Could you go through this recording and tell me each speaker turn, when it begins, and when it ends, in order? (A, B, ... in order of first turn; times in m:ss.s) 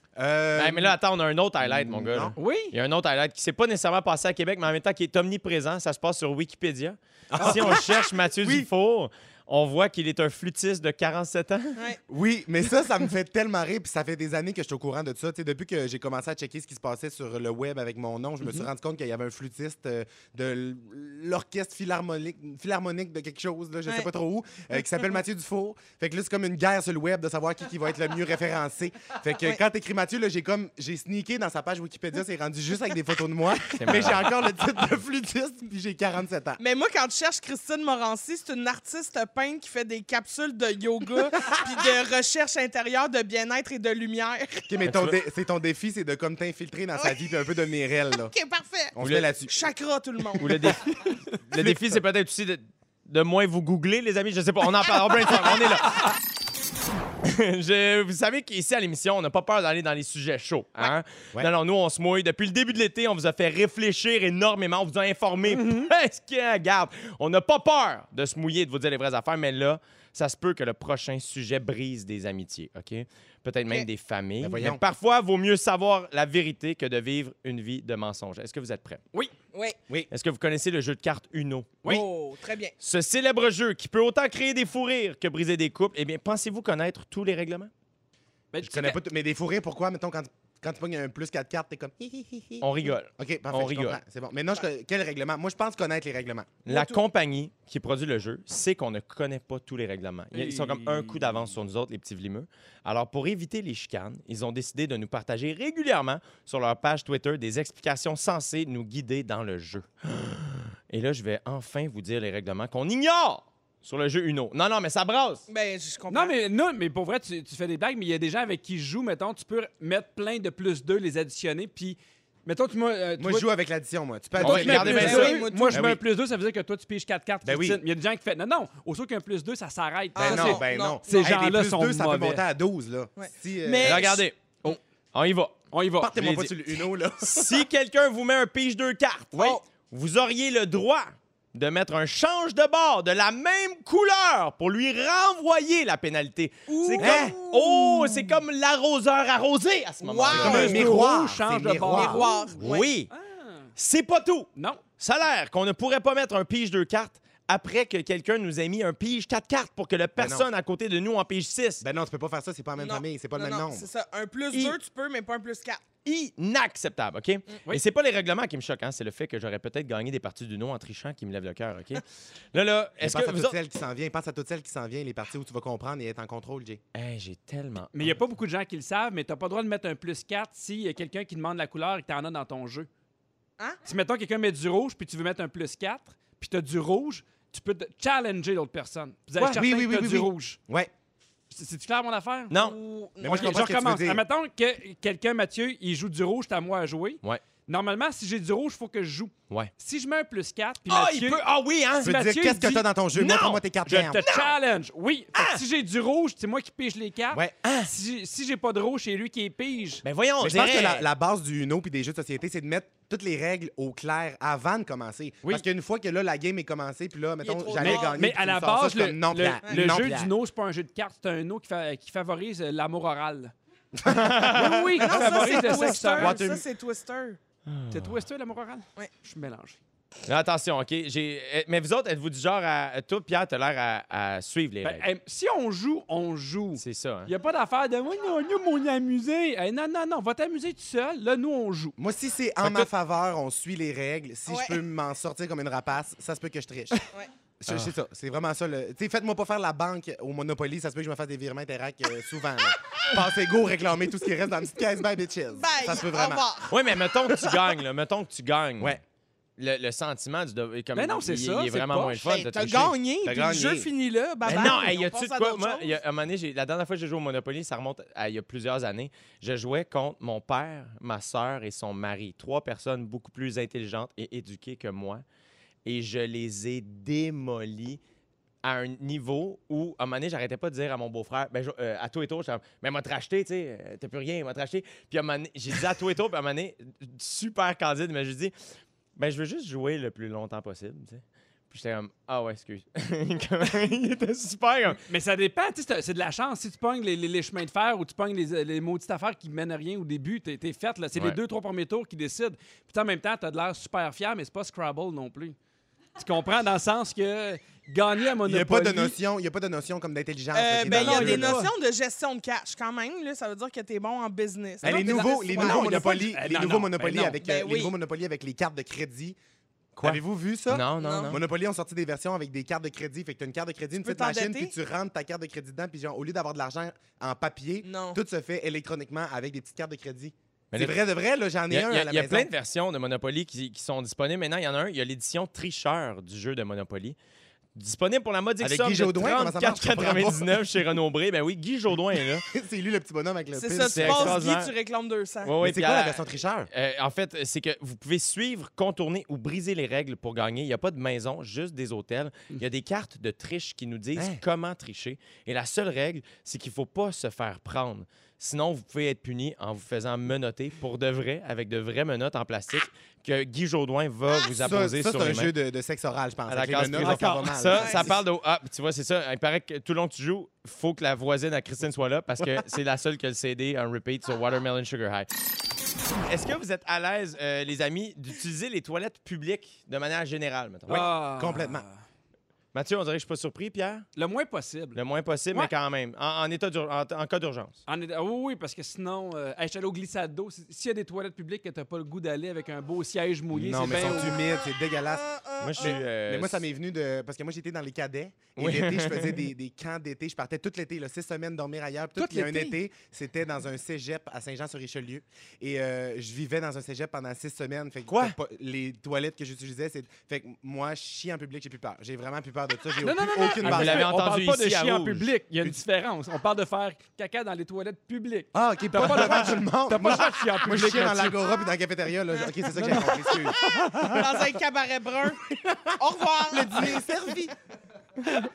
0:00.2-0:00.9 A
0:00.6-0:11.8 B
0:01.6-0:02.4 A
0:02.4-0:02.7 C
0:07.3-0:08.7 A
0:12.1-0:36.6 A
0:33.7-0:34.3 B
0:36.6-0:44.6 D
0:44.7-0:48.3 A
0:44.8-0:45.1 B
0:47.0-0:47.2 D
0:48.3-0:50.8 D
0:48.9-0:49.5 A
0:49.0-0:49.3 B
0:50.4-0:56.1 B
0:51.5-0:52.0 A
0:57.2-1:19.0 B
1:05.4-1:05.9 C
1:14.4-1:14.8 A
1:20.1-1:22.0 B
1:21.8-1:22.7 D
1:22.8-1:27.7 B
1:28.5-1:29.0 C
1:28.6-1:36.6 A
1:32.6-1:34.0 B
1:36.6-1:55.4 B
1:36.7-1:37.0 D
1:40.3-1:41.4 C
1:55.5-1:56.3 D
1:56.1-2:03.5 C
2:03.2-2:06.0 A
2:04.4-2:12.4 C
2:04.4-2:05.5 B
2:04.8-2:05.9 D
2:07.4-2:07.8 A
2:10.2-2:14.2 A
2:10.2-2:11.2 D
2:13.2-2:14.2 D
2:13.8-2:14.4 B
2:15.1-2:16.6 B
2:15.7-2:16.1 C
2:16.0-2:17.6 A
2:17.2-2:30.9 B
2:19.3-2:19.6 D
2:26.7-2:28.2 D
2:27.0-2:27.4 A
2:30.0-2:30.8 D
2:30.3-2:32.4 A
2:30.4-2:32.5 C
2:31.9-2:32.9 D
2:32.6-2:33.1 B
2:33.1-2:33.7 C
2:33.8-2:41.8 B
2:34.6-2:34.8 C
2:40.2-2:40.5 A
2:41.8-2:43.9 A
2:42.8-2:45.8 D
2:44.5-2:44.8 B
2:46.0-2:53.5 B
2:53.0-2:56.8 A
2:56.9-2:58.1 B
2:57.9-3:02.9 C
3:03.8-3:10.6 C
3:09.4-3:10.9 A
3:11.5-3:12.5 C
3:12.5-3:12.8 B
3:12.5-3:13.6 D
3:13.2-3:14.2 A
3:13.2-3:21.4 C
3:20.9-3:22.1 B
3:22.0-3:24.2 A
3:22.0-3:22.8 C
3:23.1-3:23.6 B
3:23.9-3:30.0 C
3:24.1-3:24.5 B
3:25.3-3:25.6 B
3:27.6-3:27.9 B
3:30.0-3:31.1 B
3:30.4-3:40.3 A
3:37.4-3:38.2 D
3:37.8-3:43.5 C
3:44.0-3:44.6 A
3:44.0-3:45.6 B
3:44.4-3:46.4 C
3:45.0-3:47.4 D
3:46.2-3:46.6 B
3:47.7-3:48.2 B
3:47.9-3:49.8 C
3:50.2-3:55.0 B
3:54.8-4:02.0 C
3:56.8-3:57.3 B
4:02.0-4:07.0 A
4:04.5-4:04.8 D
4:07.6-4:16.5 A
4:15.5-4:16.8 D
4:16.7-4:19.0 B
4:19.6-4:22.9 B
4:20.9-4:22.3 C
4:22.2-4:25.9 D
4:23.2-4:23.9 A
4:24.4-4:24.8 A
4:24.4-4:35.2 B
4:35.8-4:38.0 B
4:38.6-4:48.5 B
4:49.2-4:55.0 B
4:55.0-5:05.6 C
5:06.2-5:09.2 C
5:08.4-5:11.6 A
5:10.5-5:16.2 D
5:10.8-5:11.7 C
5:14.8-5:17.4 C
5:14.8-5:19.4 A
5:17.4-5:17.9 D
5:20.0-5:32.5 A
5:20.0-5:21.4 B
5:21.0-5:21.3 D
5:24.0-5:24.7 D
5:27.8-5:28.2 D
5:30.7-5:31.0 B
5:31.7-5:37.2 B
5:37.7-5:42.4 B
5:38.6-5:40.6 A
5:42.5-5:44.4 A
5:43.5-5:45.5 D
5:43.9-5:44.7 B
5:45.4-6:05.5 B
5:45.6-5:46.7 A
5:54.1-5:54.4 A
6:04.4-6:08.2 A
6:06.5-6:15.3 B
6:07.0-6:07.7 C
6:07.7-6:08.1 D
6:16.2-6:21.1 B
6:20.9-6:22.0 C
6:21.4-6:21.8 A
6:22.7-6:24.0 B
6:24.2-6:25.0 C
6:24.9-6:27.8 B
6:27.9-6:34.4 C
6:33.5-6:54.1 A
6:35.1-6:36.0 D
6:35.6-6:36.6 B
6:38.6-6:39.4 B
6:42.2-6:42.8 C
6:48.1-6:48.4 B
6:53.0-7:01.4 C
6:53.6-6:55.3 B
6:58.5-7:04.3 A
7:02.3-7:05.4 D
7:02.8-7:03.1 C
7:05.5-7:06.0 A
7:06.0-7:07.0 D
7:06.5-7:07.5 A